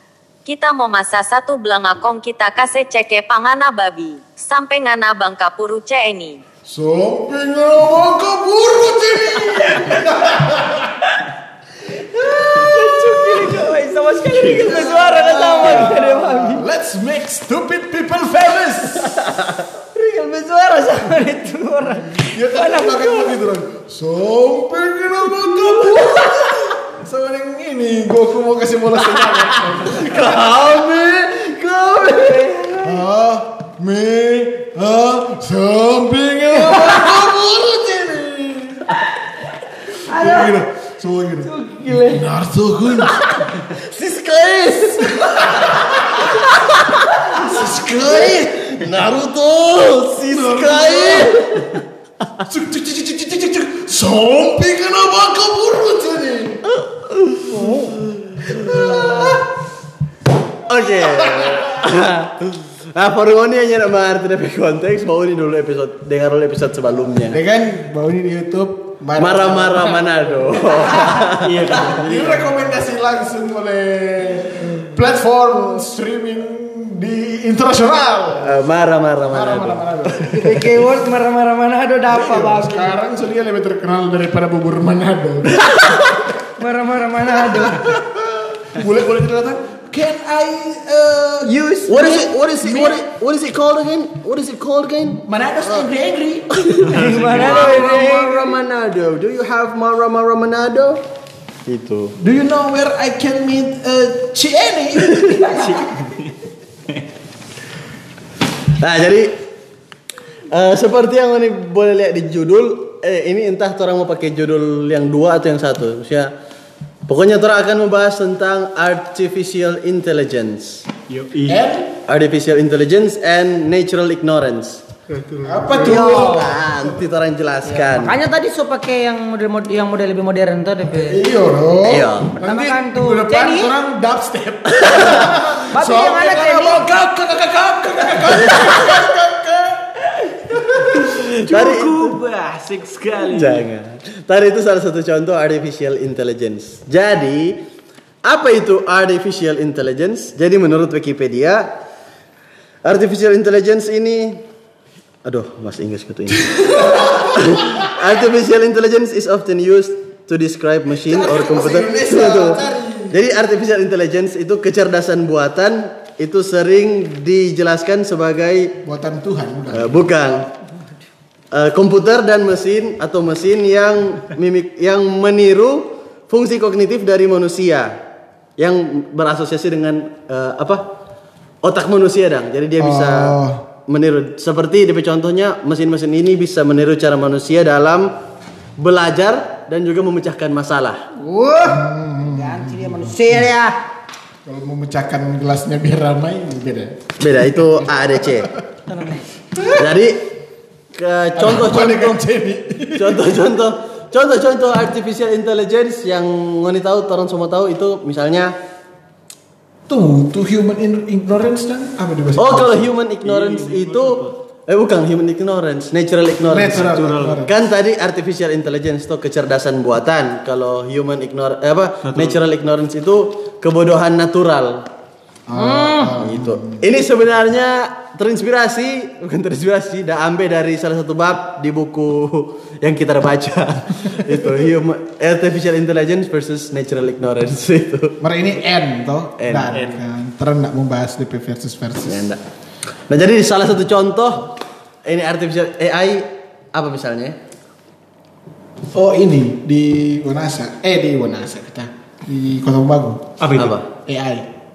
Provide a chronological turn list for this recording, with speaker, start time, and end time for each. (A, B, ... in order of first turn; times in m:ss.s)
0:00.4-0:06.4 A
0:06.6-0:11.0 B
0:12.5-0:13.5 C
0:12.5-0:16.6 D
0:14.4-0:16.5 C
0:16.4-0:19.2 B
0:19.9-0:23.3 D
0:22.1-0:30.4 B
0:25.5-0:26.4 D
0:29.9-0:32.5 C
0:32.0-0:33.0 D
0:32.8-0:38.9 B
0:36.6-0:37.3 C
0:36.8-0:37.1 D
0:40.0-0:40.6 D
0:40.0-0:43.2 B
0:41.4-0:42.2 D
0:43.2-0:47.3 C
0:45.1-0:46.3 B
0:47.3-0:48.8 B
0:48.7-0:51.8 C
0:50.3-0:51.6 B
0:52.4-0:56.6 B
0:56.7-0:59.4 C
0:57.5-0:59.4 B
1:00.7-1:07.4 C
1:01.0-1:01.7 B
1:07.2-1:18.6 B
1:09.2-1:11.6 C
1:11.2-1:12.5 E
1:18.4-1:20.8 C
1:19.3-1:20.5 B
1:20.3-1:23.0 D
1:22.1-1:26.3 B
1:25.6-1:26.0 C
1:26.6-1:27.9 D
1:27.3-1:33.0 B
1:31.8-1:35.2 C
1:35.2-1:38.1 B
1:36.6-1:41.0 C
1:36.9-1:37.7 E
1:36.9-1:38.5 D
1:41.6-1:42.1 C
1:42.2-1:45.8 B
1:45.1-1:45.5 C
1:45.6-1:46.3 E
1:48.8-1:49.4 C
1:50.5-1:56.3 C
1:57.0-2:00.8 C
2:01.1-2:01.6 E
2:01.4-2:01.9 B
2:02.0-2:04.8 C
2:05.1-2:07.0 B
2:05.6-2:08.2 C
2:07.7-2:11.2 D
2:10.8-2:21.1 B
2:11.8-2:12.3 C
2:12.4-2:13.7 D
2:14.8-2:15.3 C
2:15.7-2:16.9 D
2:18.4-2:18.9 C
2:21.0-2:23.7 E
2:21.1-2:22.1 C
2:23.3-2:27.6 C
2:28.2-2:31.7 C
2:32.8-2:34.4 C
2:35.2-2:48.8 C
2:36.9-2:37.8 B
2:41.0-2:43.2 B
2:48.8-2:50.1 B
2:49.7-2:50.5 C
2:51.5-2:58.0 C
2:58.6-3:00.8 C
3:01.6-3:08.1 C
3:02.8-3:03.6 B
3:08.8-3:11.0 C
3:11.2-3:13.5 B
3:11.3-3:11.8 D
3:12.3-3:13.8 D
3:14.4-3:17.0 B
3:17.2-3:18.5 C
3:17.8-3:18.5 B
3:18.9-3:19.2 D
3:19.5-3:19.9 B
3:19.6-3:20.3 C
3:20.9-3:22.2 C
3:21.4-3:23.3 B
3:23.0-3:28.5 C
3:29.9-3:32.9 B
3:32.4-3:44.8 C
3:33.2-3:34.3 E
3:36.5-3:37.6 B
3:36.8-3:37.4 E
3:42.0-3:42.4 E
3:45.5-3:46.8 B
3:45.5-3:46.1 D
3:46.1-3:58.2 C
3:58.2-4:02.3 B
3:59.4-3:59.7 C
3:59.7-4:00.0 E
4:02.0-4:02.4 C
4:03.1-4:04.5 C
4:05.0-4:07.4 C
4:08.9-4:13.3 B
4:13.4-4:13.8 E
4:13.6-4:13.9 C
4:14.0-4:14.5 B